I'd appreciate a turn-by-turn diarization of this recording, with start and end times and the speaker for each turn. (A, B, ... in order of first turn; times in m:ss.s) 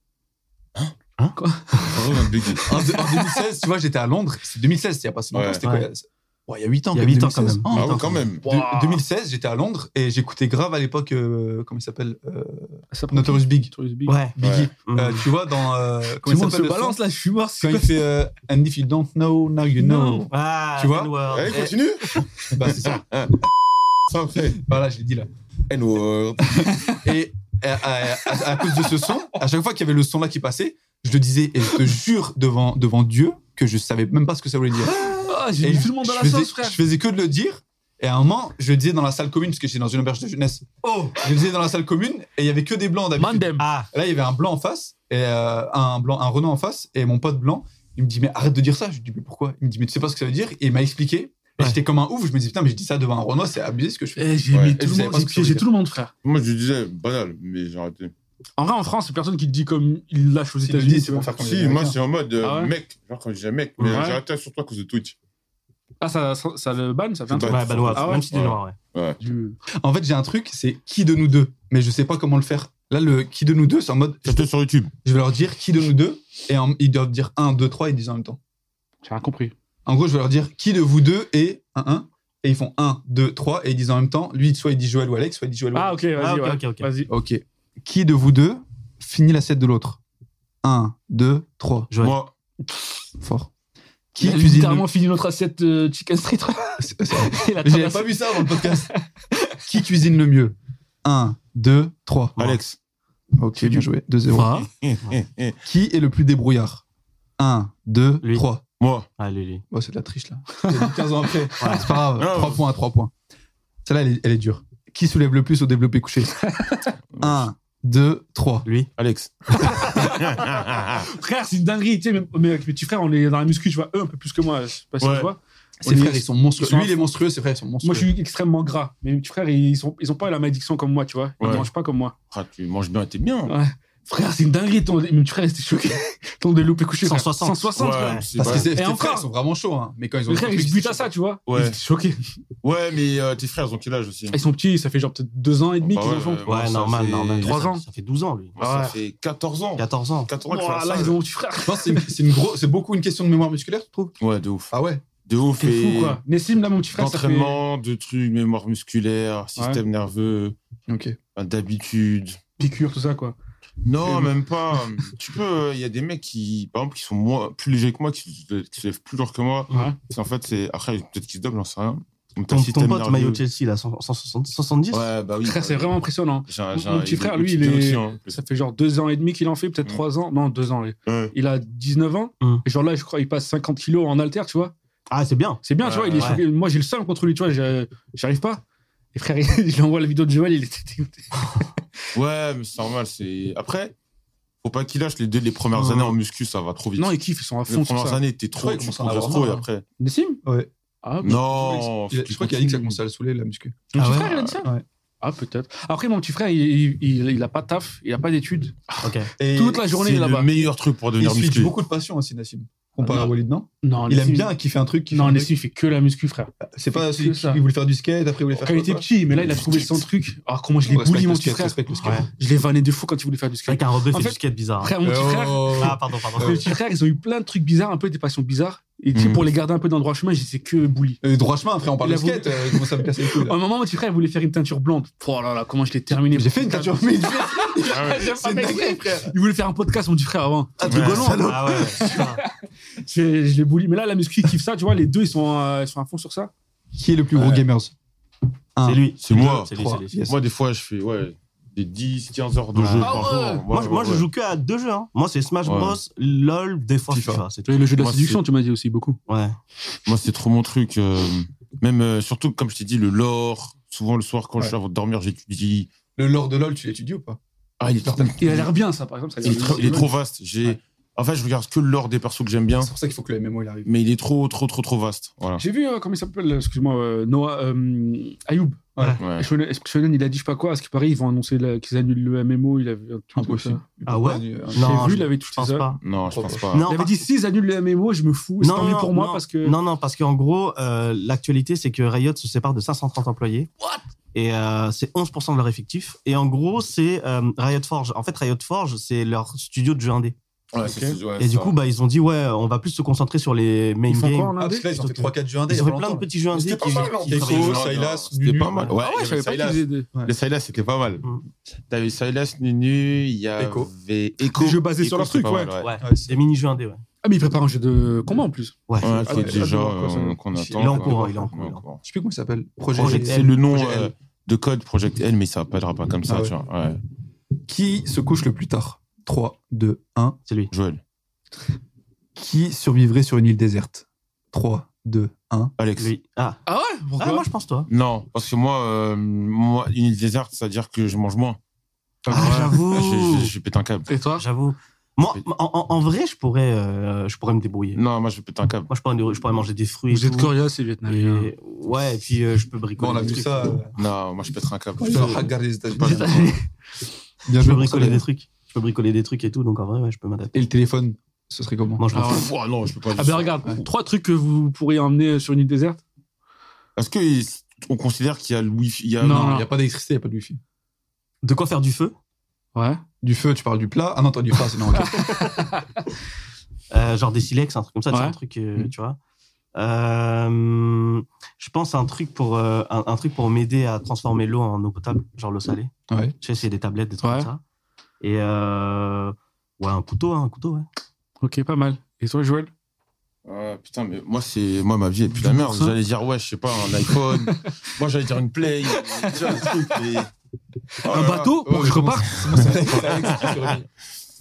0:01.4-0:02.0 A
0:01.9-0:02.7 B
0:02.6-0:13.7 C
0:02.6-0:03.4 A
0:05.3-0:05.6 B
0:05.5-0:05.9 D
0:06.9-0:08.2 D
0:07.7-0:08.4 B
0:08.4-0:09.0 A
0:12.9-0:14.2 A
0:14.1-0:15.3 D
0:14.4-0:17.0 C
0:14.4-0:14.7 B
0:16.2-0:18.1 A
0:17.6-0:21.1 C
0:19.8-0:20.3 A
0:20.3-0:21.7 D
0:21.3-0:23.4 B
0:22.1-0:22.4 A
0:22.5-0:23.0 C
0:24.1-0:24.6 B
0:24.6-0:25.3 C
0:25.7-0:26.8 B
0:26.7-0:27.0 A
0:27.0-0:55.7 C
0:34.9-0:36.8 A
0:40.9-0:41.1 D
0:43.2-0:43.7 A
0:43.6-0:43.9 D
0:54.2-0:56.1 A
0:54.5-0:54.8 B
0:56.2-0:58.1 B
0:58.6-1:01.3 A
1:00.6-1:02.0 C
1:01.3-1:05.2 B
1:02.4-1:02.7 A
1:03.8-1:04.1 D
1:03.9-1:04.2 A
1:06.0-1:08.3 A
1:07.3-1:09.2 B
1:07.4-1:08.8 D
1:09.2-1:09.6 A
1:09.8-1:14.4 C
1:14.2-1:14.9 B
1:15.0-1:18.4 C
1:19.0-1:19.5 A
1:19.9-1:26.0 C
1:25.7-1:27.1 A
1:26.2-1:26.9 D
1:27.1-1:30.0 C
1:30.6-1:31.9 C
1:31.9-1:32.2 D
1:32.0-1:32.3 B
1:33.2-1:33.5 C
1:34.2-1:34.9 C
1:34.2-1:39.6 A
1:36.8-1:38.9 C
1:39.7-1:42.4 C
1:42.4-1:42.6 D
1:42.4-1:42.8 B
1:43.4-1:44.6 C
1:43.6-1:44.7 A
1:44.5-1:45.6 B
1:45.6-1:46.8 C
1:47.4-1:48.6 C
1:48.2-1:48.5 D
1:48.8-1:49.1 B
1:49.2-1:49.6 D
1:49.7-1:53.1 C
1:50.6-1:50.9 A
1:51.6-1:52.0 D
1:52.2-1:52.6 B
1:53.8-1:56.4 C
1:56.4-1:56.9 A
1:57.1-1:57.5 B
1:57.2-1:58.7 C
1:58.6-1:58.9 D
1:59.0-2:01.1 B
1:59.6-2:07.0 A
2:05.0-2:05.3 B
2:05.8-2:08.1 C
2:07.8-2:12.1 A
2:11.4-2:11.7 B
2:12.3-2:13.6 B
2:13.5-2:19.3 A
2:17.0-2:18.6 D
2:17.8-2:18.7 B
2:18.4-2:21.1 C
2:20.3-2:22.2 A
2:21.5-2:21.8 B
2:22.6-2:24.4 B
2:24.3-2:26.4 A
2:25.8-2:27.6 B
2:26.4-2:28.5 D
2:27.4-2:27.8 A
2:28.6-2:31.2 B
2:28.6-2:29.0 A
2:29.8-2:30.3 D
2:30.5-2:32.1 A
2:31.7-2:34.1 C
2:34.2-2:34.7 B
2:34.7-2:35.0 C
2:35.2-2:36.2 B
2:35.6-2:37.6 A
2:37.0-2:40.6 B
2:39.6-2:39.8 A
2:40.9-2:41.2 C
2:41.4-2:42.4 B
2:42.6-2:43.4 A
2:43.8-2:53.4 B
2:49.7-2:50.0 A
2:52.5-2:55.1 D
2:54.9-2:58.4 B
2:55.4-3:04.7 A
3:01.1-3:01.3 B
3:05.1-3:05.6 D
3:05.6-3:08.6 A
3:05.8-3:06.4 B
3:06.2-3:06.4 D
3:09.1-3:11.5 A
3:12.1-3:13.9 B
3:14.6-3:17.2 B
3:17.0-3:18.2 A
3:17.7-3:19.8 B
3:18.6-3:19.7 C
3:20.0-3:20.4 A
3:20.4-3:20.7 C
3:21.0-3:21.9 A
3:21.2-3:23.0 B
3:21.2-3:24.8 C
3:23.9-3:30.5 A
3:24.0-3:24.3 D
3:24.1-3:24.6 B
3:29.0-3:29.3 D
3:29.4-3:29.9 C
3:29.9-3:31.8 B
3:31.2-3:35.5 C
3:33.8-3:34.5 A
3:35.1-3:37.6 A
3:36.7-3:39.1 C
3:38.6-3:51.2 A
3:39.4-3:40.0 B
3:40.9-3:42.2 C
3:43.7-3:45.0 D
3:45.0-3:46.7 C
3:45.8-3:46.7 D
3:49.1-3:49.5 B
3:51.2-3:53.6 C
3:52.0-4:06.5 A
3:56.1-3:59.3 C
3:57.9-3:58.3 B
4:00.8-4:02.2 C
4:00.8-4:01.6 B
4:01.2-4:02.4 D
4:07.0-4:07.9 C
4:07.3-4:07.7 B
4:08.8-4:10.3 C
4:08.8-4:10.3 D
4:09.2-4:09.7 B
4:10.3-4:14.3 B
4:12.8-4:18.0 D
4:13.0-4:13.6 A
4:15.6-4:16.0 B
4:17.1-4:17.4 C
4:17.7-4:19.2 A
4:18.0-4:18.4 B
4:19.3-4:19.6 D
4:20.1-4:25.9 B
4:26.2-4:27.4 C
4:27.8-4:28.7 B
4:28.0-4:28.7 C
4:28.4-4:30.1 A
4:29.4-4:32.9 B
4:29.4-4:30.1 C
4:32.8-4:33.9 C
4:33.8-4:35.6 B
4:35.6-4:43.8 A
4:39.0-4:39.2 C
4:39.2-4:39.5 B
4:43.4-4:45.3 C
4:44.1-4:46.0 D
4:44.8-4:45.9 A
4:46.0-4:46.9 B
4:46.2-4:46.7 C
4:46.7-4:47.2 D
4:46.9-4:49.8 A
4:48.6-4:53.7 D
4:54.3-5:00.4 D
5:00.7-5:01.7 B
5:00.8-5:01.2 A
5:01.4-5:07.9 D
5:04.1-5:04.9 A
5:04.6-5:08.9 C
5:06.5-5:11.2 B
5:08.9-5:10.1 A
5:11.9-5:15.9 B
5:13.6-5:13.9 C
5:14.5-5:15.7 A
5:15.8-5:17.0 D
5:16.0-5:16.4 C
5:17.2-5:20.4 A
5:18.9-5:19.2 D
5:19.0-5:22.0 B
5:19.3-5:19.7 C
5:20.5-5:21.5 C
5:20.8-5:21.8 D
5:22.0-5:24.1 C
5:22.9-5:23.5 D
5:23.0-5:27.0 B
5:26.3-5:26.5 C
5:27.7-5:30.4 C
5:30.7-5:31.0 B
5:32.4-5:35.7 C
5:35.8-5:36.1 B
5:36.0-5:36.6 D
5:36.7-5:37.5 A
5:37.2-5:37.9 D
5:37.9-5:41.6 B
5:42.3-5:42.6 C
5:42.3-5:43.5 D
5:42.3-5:42.8 A
5:42.8-5:44.1 B
5:44.1-5:44.4 A
5:44.4-5:48.0 D
5:47.9-5:48.9 B
5:48.9-5:50.5 D
5:50.1-5:51.5 A
5:51.0-5:53.8 D
5:53.0-5:54.0 C
5:54.0-5:56.5 B
5:55.0-5:56.6 C
5:55.1-5:55.5 D
5:56.0-5:56.7 A
5:57.5-5:58.2 C
5:57.5-6:00.6 D
6:00.5-6:02.0 C
6:02.0-6:02.5 D
6:02.1-6:02.5 A
6:02.2-6:03.7 B
6:03.2-6:06.0 A
6:07.0-6:09.6 B
6:09.2-6:09.7 A
6:09.3-6:10.6 C
6:11.4-6:12.2 D
6:12.8-6:13.0 A
6:13.2-6:15.5 C
6:15.0-6:16.0 A
6:16.9-6:19.2 D
6:18.1-6:18.4 A
6:19.8-6:27.6 D
6:26.1-6:26.4 C
6:27.2-6:27.5 A
6:28.2-6:30.9 D
6:31.4-6:32.7 A
6:33.4-6:40.3 B
6:35.4-6:36.0 A
6:37.1-6:37.7 A
6:38.9-6:40.0 A
6:41.0-6:42.4 A
6:41.0-6:43.6 B
6:41.6-6:43.9 C